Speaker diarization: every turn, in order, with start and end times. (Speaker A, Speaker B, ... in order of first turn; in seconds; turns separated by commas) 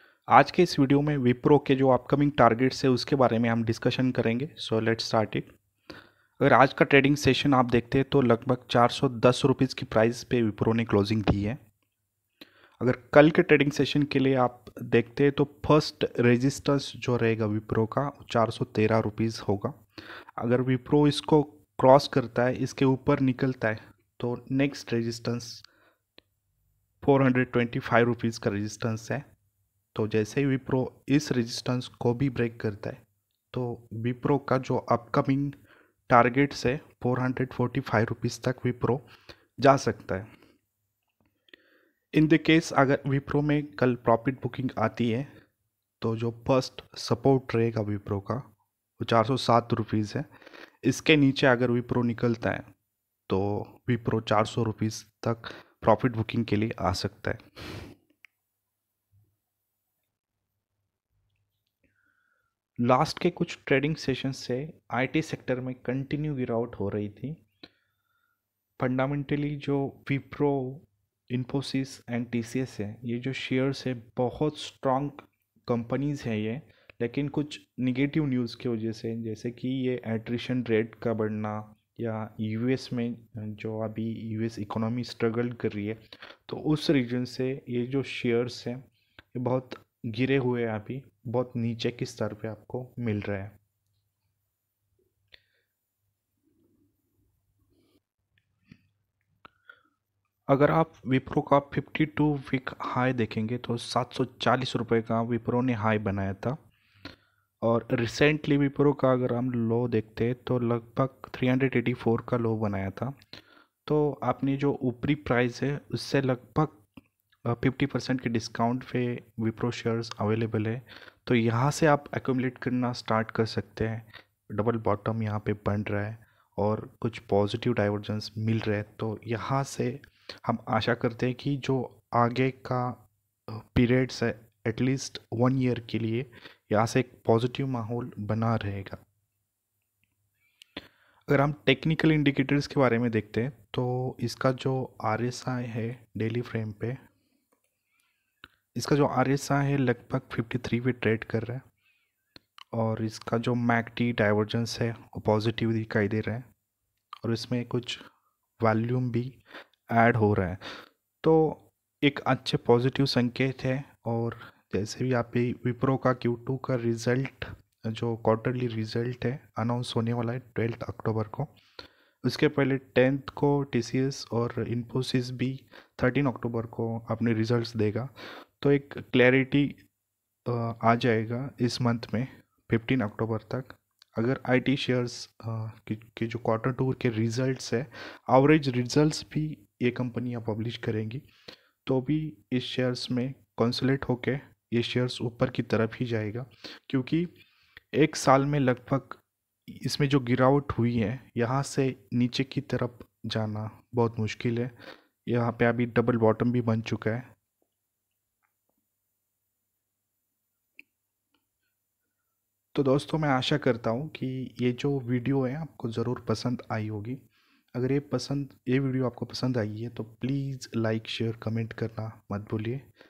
Speaker A: 0.3-5.5, Speaker A: 6.4-11.6, Speaker A: 12.8-19.7, Speaker A: 20.4-25.6, Speaker A: 27.0-29.2, Speaker A: 29.9-35.5, Speaker A: 36.1-39.0, Speaker A: 39.6-40.3, Speaker A: 42.1-45.3, Speaker A: 46.0-48.4, Speaker A: 49.0-50.3, Speaker A: 50.8-52.7, Speaker A: 53.3-57.4, Speaker A: 62.8-67.4, Speaker A: 68.8-93.5, Speaker A: 100.5-106.6, Speaker A: 107.6-113.2, Speaker A: 113.8-116.8, Speaker A: 117.5-139.0, Speaker A: 141.3-147.0, Speaker A: 148.7-151.6, Speaker A: 152.7-156.4, Speaker A: 157.2-158.0, Speaker A: 158.6-160.6, Speaker A: 161.2-171.5, Speaker A: 172.2-179.8, Speaker A: 180.4-191.2, Speaker A: 191.8-197.3, Speaker A: 197.9-204.7, Speaker A: 205.2-207.3, Speaker A: 212.7-217.2, Speaker A: 217.7-222.8